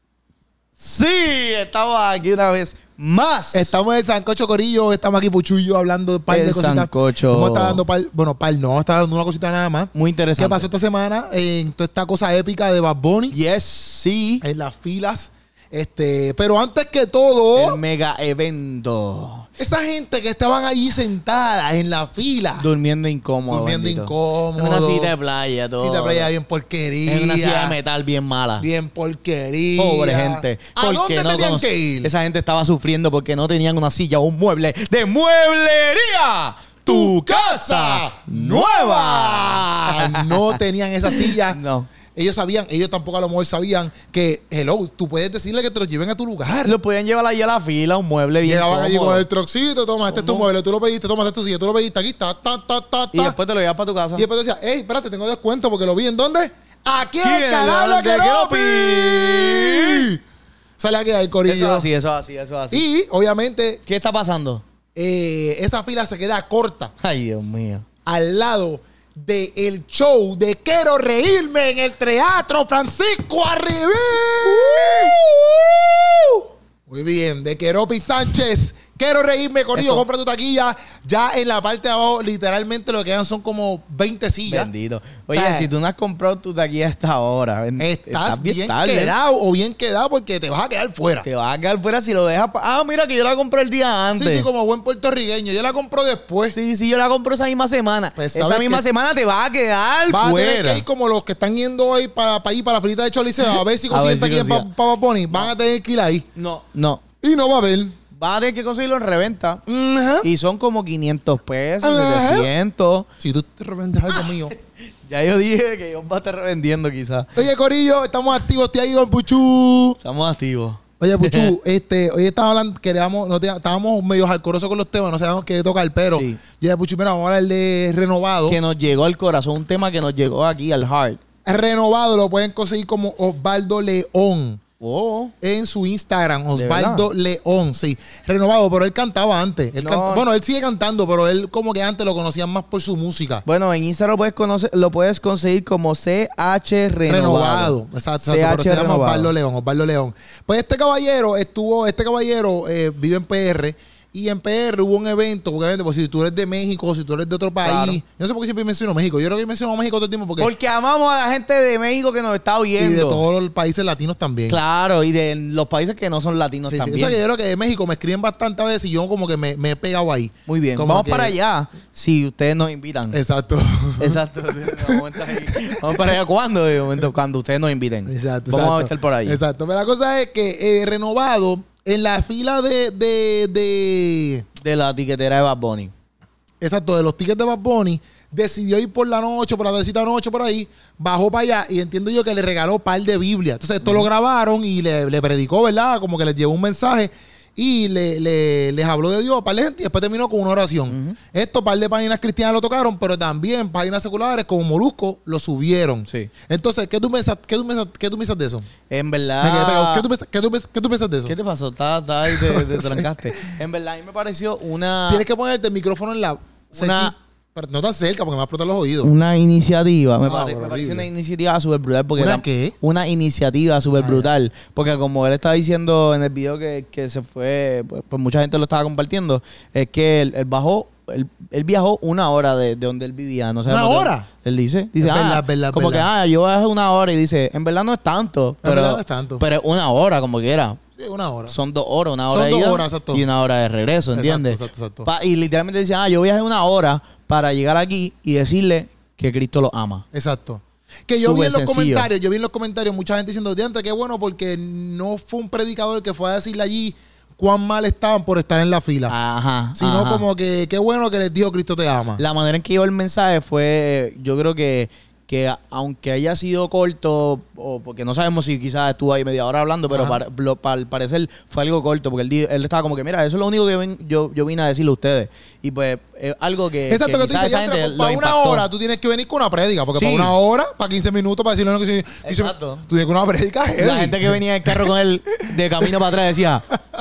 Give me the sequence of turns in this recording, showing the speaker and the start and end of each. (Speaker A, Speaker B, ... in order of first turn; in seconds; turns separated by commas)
Speaker A: 0.8-3.8, Speaker B: 3.5-13.4, Speaker A: 6.3-7.8, Speaker A: 9.9-10.7, Speaker A: 13.3-14.4, Speaker B: 14.4-17.8, Speaker A: 17.6-19.5, Speaker B: 19.6-22.7, Speaker A: 22.6-26.3, Speaker B: 23.5-25.1, Speaker B: 25.8-27.8, Speaker A: 27.1-28.7, Speaker B: 28.6-32.1, Speaker A: 29.8-41.9, Speaker B: 36.9-41.6, Speaker B: 42.1-46.8, Speaker A: 46.6-49.2, Speaker B: 48.4-53.4, Speaker A: 50.1-50.5, Speaker A: 53.1-54.3, Speaker B: 54.1-60.2, Speaker A: 57.2-60.1, Speaker B: 60.8-61.9, Speaker A: 61.5-62.8, Speaker B: 62.7-63.8, Speaker A: 63.9-64.6, Speaker B: 65.0-66.9, Speaker A: 67.0-67.8, Speaker B: 68.1-84.7, Speaker A: 74.7-75.4, Speaker A: 79.7-80.0, Speaker A: 84.5-89.1, Speaker B: 85.3-85.7, Speaker B: 87.8-91.3, Speaker A: 91.2-94.5, Speaker B: 94.1-96.6, Speaker A: 96.5-100.8, Speaker B: 98.2-98.8, Speaker B: 100.1-106.3, Speaker A: 103.9-104.7, Speaker A: 106.4-107.0, Speaker B: 107.2-108.0, Speaker A: 108.1-109.6, Speaker B: 109.7-110.3, Speaker A: 110.2-113.1, Speaker B: 111.8-112.5, Speaker B: 113.2-114.5, Speaker A: 114.1-114.5, Speaker A: 115.0-117.4, Speaker B: 117.4-120.0, Speaker A: 120.0-121.5, Speaker B: 121.0-128.6, Speaker A: 126.1-126.4, Speaker A: 128.5-131.2, Speaker B: 131.4-134.6, Speaker A: 134.8-135.3, Speaker B: 135.4-143.4, Speaker A: 136.5-137.1, Speaker A: 139.8-140.3, Speaker A: 143.4-149.3, Speaker B: 147.1-160.5, Speaker A: 157.6-158.0, Speaker A: 160.4-163.2, Speaker B: 162.8-164.6, Speaker A: 164.5-167.2, Speaker B: 166.7-171.3, Speaker A: 170.5-173.2, Speaker B: 173.1-176.1, Speaker A: 174.0-179.4, Speaker B: 178.1-184.4, Speaker A: 184.6-185.9, Speaker B: 186.6-208.7, Speaker A: 200.9-201.2, Speaker A: 208.9-210.1, Speaker B: 209.4-211.3, Speaker A: 211.3-215.2, Speaker B: 212.3-213.5, Speaker B: 215.1-219.1, Speaker A: 216.7-217.1, Speaker A: 219.0-240.8, Speaker B: 220.2-221.1, Speaker B: 222.2-222.8, Speaker B: 224.0-224.3, Speaker B: 233.7-234.3, Speaker B: 235.0-236.1, Speaker B: 238.6-239.4, Speaker B: 241.0-241.5, Speaker A: 241.5-250.1, Speaker B: 242.3-243.2, Speaker B: 244.2-245.1, Speaker B: 250.1-259.1, Speaker A: 251.2-252.1, Speaker A: 259.1-260.2, Speaker B: 259.8-262.2, Speaker A: 262.2-278.7, Speaker B: 269.9-270.2, Speaker B: 276.9-284.9, Speaker A: 279.9-280.3, Speaker A: 282.2-282.8, Speaker A: 283.8-286.6, Speaker B: 285.8-286.2